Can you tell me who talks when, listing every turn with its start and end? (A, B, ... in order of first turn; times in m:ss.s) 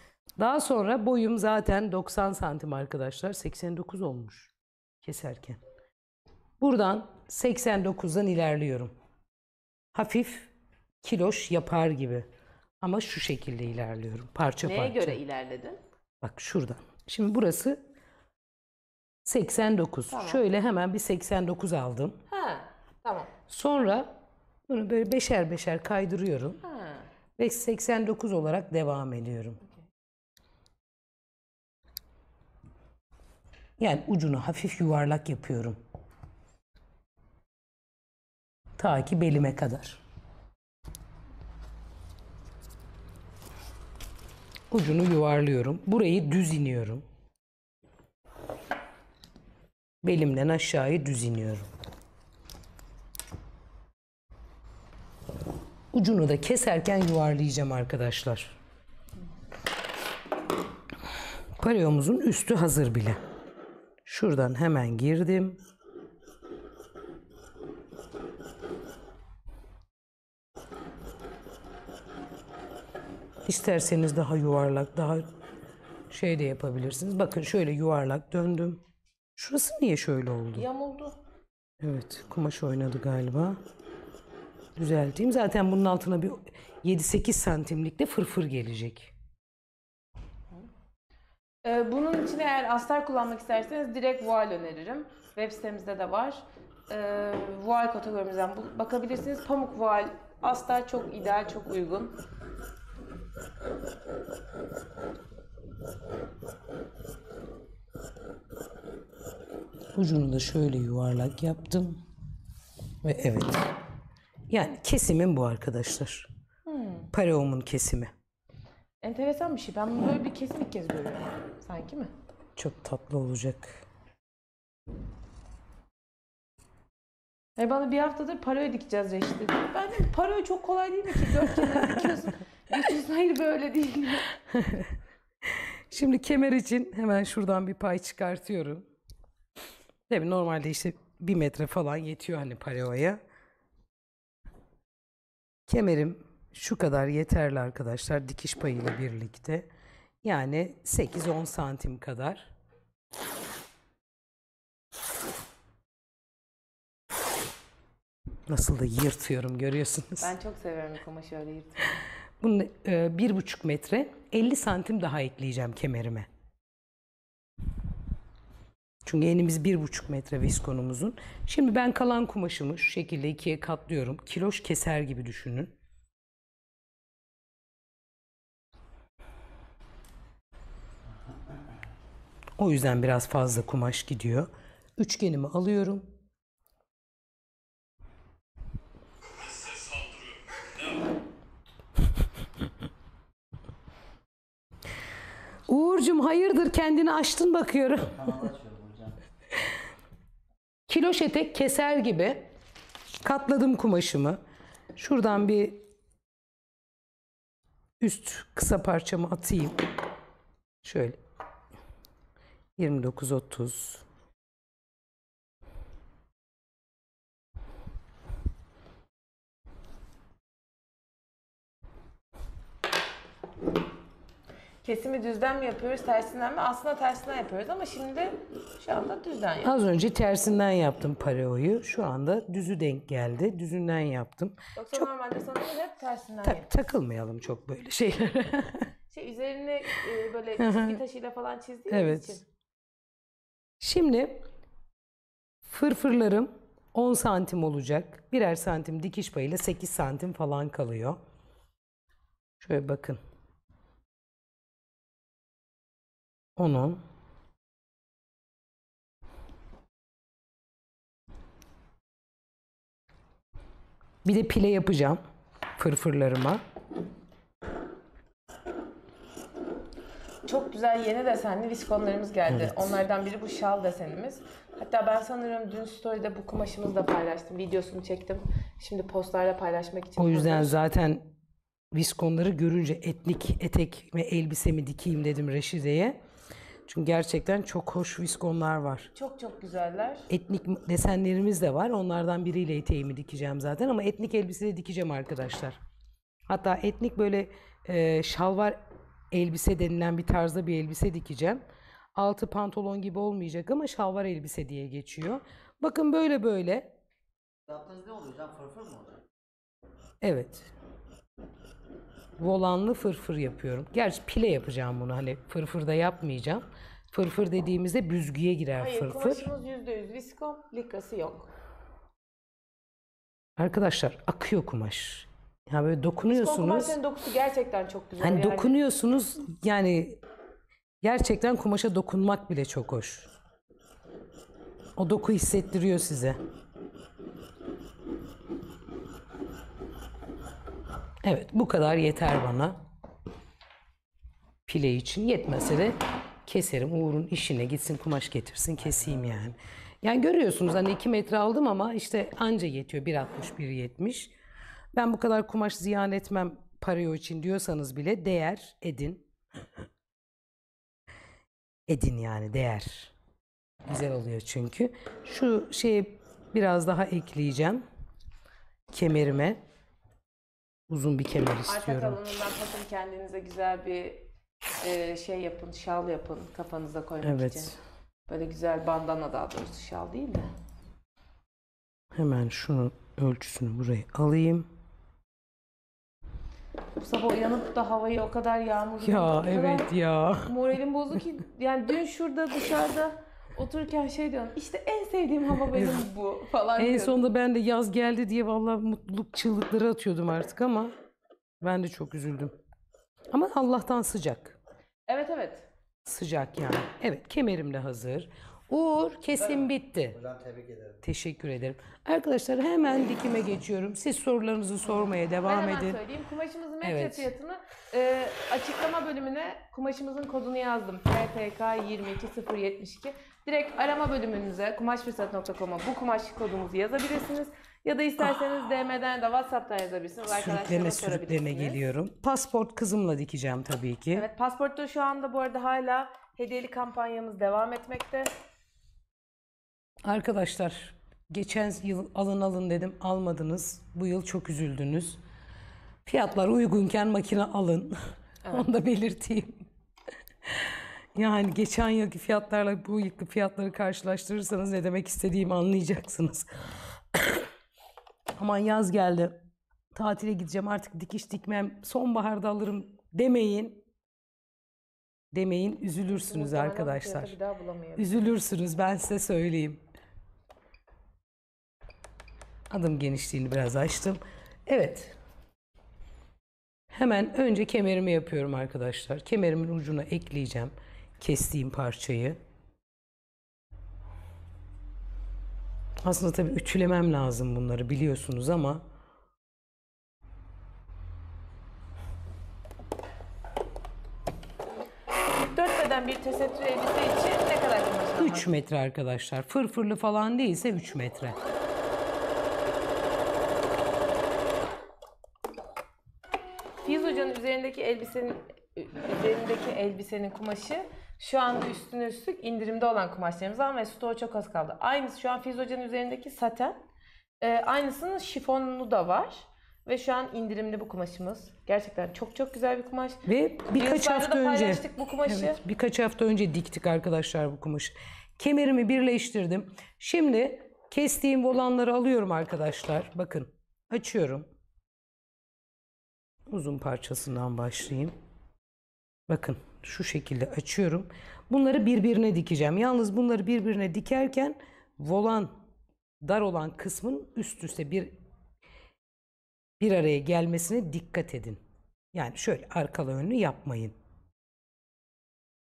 0:00.4-0:05.6 A
0:06.6-0:08.9 A
0:09.9-0:10.5 A
0:11.0-0:12.3 A
0:12.8-0:15.2 A
0:14.6-0:15.8 B
0:16.2-0:17.8 A
0:19.2-0:22.2 A
0:20.1-0:20.4 B
0:22.3-0:23.3 B
0:23.5-0:24.2 A
0:24.7-0:26.6 A
0:26.6-0:27.1 B
0:27.4-0:29.6 A
0:33.8-0:35.8 A
0:38.8-0:40.0 A
0:44.7-0:47.0 A
0:50.0-0:51.7 A
0:55.9-0:58.6 A
1:01.6-1:03.2 A
1:04.0-1:05.6 A
1:13.4-1:15.2 A
1:16.1-1:18.8 A
1:19.4-1:20.6 A
1:20.5-1:21.2 B
1:21.8-1:23.6 A
1:24.8-1:29.1 A
1:31.6-1:42.1 B
1:49.9-1:52.0 A
1:53.0-1:53.7 A
1:54.5-1:56.3 A
1:56.7-1:57.1 B
1:57.1-1:58.1 A
1:59.0-2:02.1 B
2:02.6-2:03.8 A
2:07.6-2:14.3 B
2:11.7-2:12.2 A
2:14.5-2:18.9 A
2:20.1-2:23.2 A
2:25.7-2:29.7 A
2:30.2-2:32.5 A
2:38.5-2:40.3 A
2:40.2-2:42.0 B
2:42.4-2:46.3 A
2:49.0-2:55.8 A
3:02.6-3:06.1 A
3:15.7-3:18.4 A
3:18.2-3:19.2 C
3:20.9-3:22.5 A
3:23.2-3:24.4 A
3:24.9-3:25.8 A
3:28.0-3:29.8 A
3:30.8-3:31.2 A
3:32.8-3:34.0 A
3:44.8-3:49.8 B
3:49.6-3:55.1 A
3:54.8-3:56.7 B
3:56.4-3:58.9 A
3:59.1-4:02.4 B
4:00.6-4:01.0 A
4:01.9-4:02.4 A
4:03.8-4:04.4 A
4:05.6-4:11.2 A
4:12.6-4:13.2 A
4:16.6-4:17.0 A
4:24.2-4:25.2 A
4:25.8-4:26.6 A
4:30.4-4:40.8 B
4:32.5-4:33.0 A
4:40.2-4:41.3 A
4:41.9-4:46.2 A
4:46.9-4:49.1 A
4:49.1-4:50.3 B
4:50.3-4:55.8 A
4:56.5-4:58.8 A
4:59.3-5:01.6 A
5:02.1-5:07.0 A
5:07.7-5:09.2 C
5:10.2-5:10.7 A
5:12.4-5:19.5 A
5:18.8-5:21.5 B
5:23.6-5:27.0 A
5:26.3-5:28.8 B
5:28.2-5:30.2 A
5:31.0-5:33.3 A
5:35.0-5:36.4 A
5:41.2-5:42.8 A
5:44.7-5:54.3 A
5:48.8-5:49.4 C
5:54.9-5:59.3 A
6:01.9-6:03.1 A
6:03.8-6:07.8 A
6:08.9-6:09.6 A
6:10.9-6:12.4 A
6:11.7-6:14.2 B
6:14.8-6:17.7 B
6:17.2-6:17.8 A
6:18.3-6:20.5 B
6:22.1-6:24.7 A
6:27.0-6:29.9 B
6:29.0-6:30.5 A
6:30.4-6:37.2 B
6:35.7-6:36.0 A
6:36.8-6:40.9 A
6:41.6-6:42.5 A
6:43.3-6:44.6 A
6:45.1-6:45.7 B
6:46.0-6:50.2 A
6:49.3-6:51.0 C
6:51.0-6:56.0 A
6:54.9-7:11.8 B
6:56.8-6:57.3 A
7:10.3-7:14.3 A
7:14.1-7:18.3 B
7:20.0-7:25.2 A
7:26.0-7:28.0 A
7:28.5-7:29.7 A
7:30.5-7:37.5 A
7:38.4-7:43.8 A
7:45.3-7:47.4 A
7:46.1-7:48.3 B
7:48.0-7:49.8 A
7:52.7-7:55.2 A
7:56.9-8:02.4 A
8:06.0-8:08.8 A
8:15.3-8:18.5 B
8:18.2-8:21.4 A
8:26.8-8:36.8 B
8:37.4-8:45.6 B
8:43.2-8:54.5 A
8:56.5-8:58.1 A
8:59.3-9:05.5 A
9:06.2-9:08.1 A
9:09.8-9:11.6 A
9:12.1-9:13.9 A